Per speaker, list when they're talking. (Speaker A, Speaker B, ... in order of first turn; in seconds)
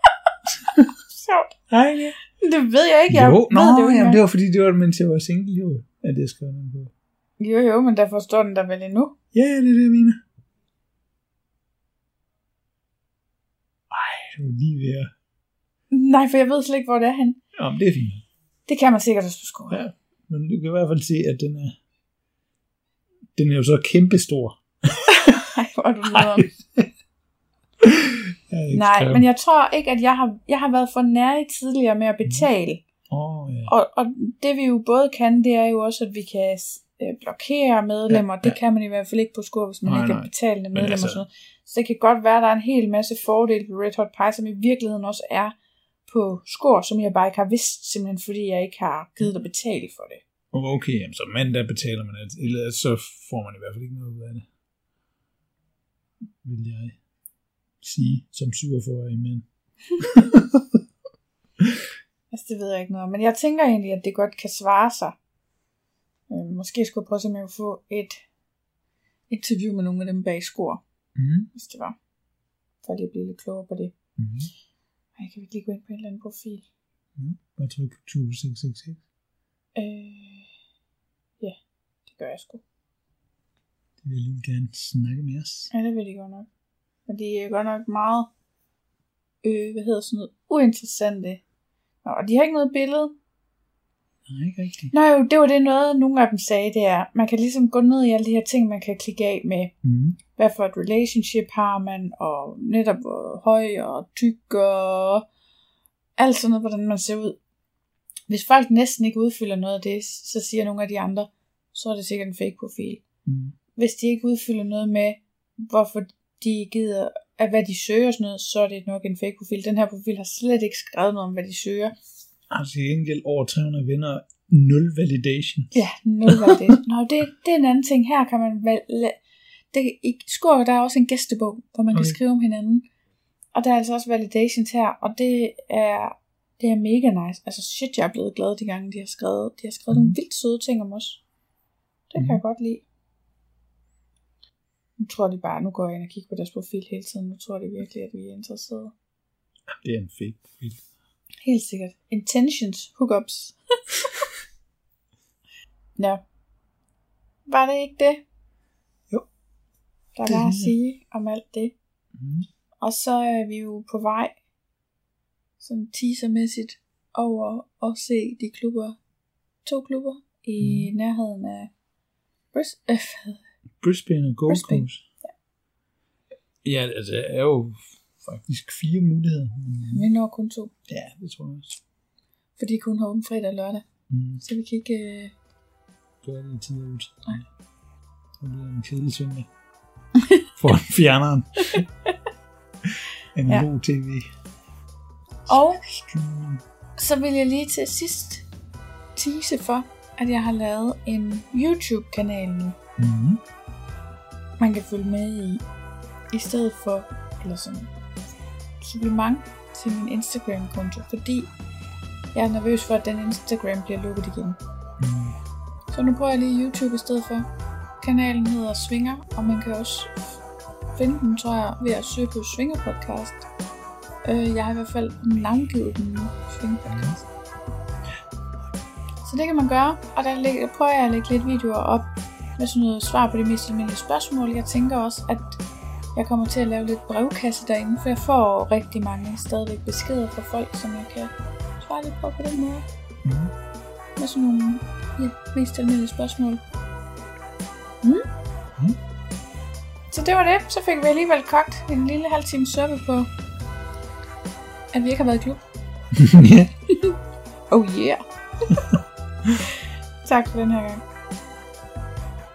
Speaker A: 0.5-0.9, 1.7-2.2, 3.1-6.9, 9.3-10.2, 13.9-15.1, 17.6-18.2, 19.7-21.8, 23.4-25.4, 26.1-26.9, 27.8-29.3, 33.1-33.7, 38.1-38.6, 39.9-41.2, 50.5-54.5, 56.4-57.0, 57.8-59.5, 60.0-60.8, 61.6-61.9, 71.2-71.5, 74.2-74.5, 77.2-79.0, 84.0-85.7, 94.3-94.9, 99.8-100.2, 113.3-113.5, 122.5-126.8, 131.9-132.2, 139.9-140.2, 142.2-142.4, 149.7-150.8, 160.2-160.7, 162.2-162.5, 170.6-170.9, 173.8-175.0, 176.6-180.1, 180.9-181.8, 184.1-184.4, 186.2-187.5, 188.4-189.5, 190.6-191.8, 192.8-194.3, 195.5-196.6, 203.0-203.4, 215.0-215.4, 226.9-227.2, 243.2-243.5, 256.1-256.7
Speaker B: 1.1-1.6, 2.3-4.2, 7.4-9.2, 15.9-17.4, 18.7-19.8, 25.1-26.5, 28.7-32.8, 33.7-45.5, 46.1-50.2, 62.3-65.2, 66.3-68.2, 69.3-70.8, 71.5-72.0, 72.8-74.0, 75.2-76.7, 79.8-80.5, 82.1-82.6, 85.7-86.5, 87.1-88.3, 89.4-91.4, 92.0-93.2, 94.9-99.7, 100.3-105.3, 106.2-107.4, 108.3-113.0, 113.8-122.0, 125.7-129.2, 129.7-132.9, 133.5-141.2, 142.1-142.8, 145.0-148.9, 151.4-153.6, 156.0-156.2, 157.5-158.2, 160.1-161.8, 162.8-164.4, 165.6-169.0, 169.7-171.7, 172.5-173.4, 174.5-175.3, 179.9-180.7, 182.6-183.9, 184.4-185.3, 190.2-190.5, 195.5-195.8, 197.0-198.4, 199.2-202.8, 204.6-205.6, 206.3-207.9, 208.8-211.5, 212.3-214.6, 215.9-217.5, 218.0-220.4, 221.0-223.4, 224.2-227.3, 229.2-235.6, 236.2-242.8, 244.2-246.6, 250.1-253.3, 254.9-255.6, 256.9-257.2, 257.7-259.0, 260.2-261.0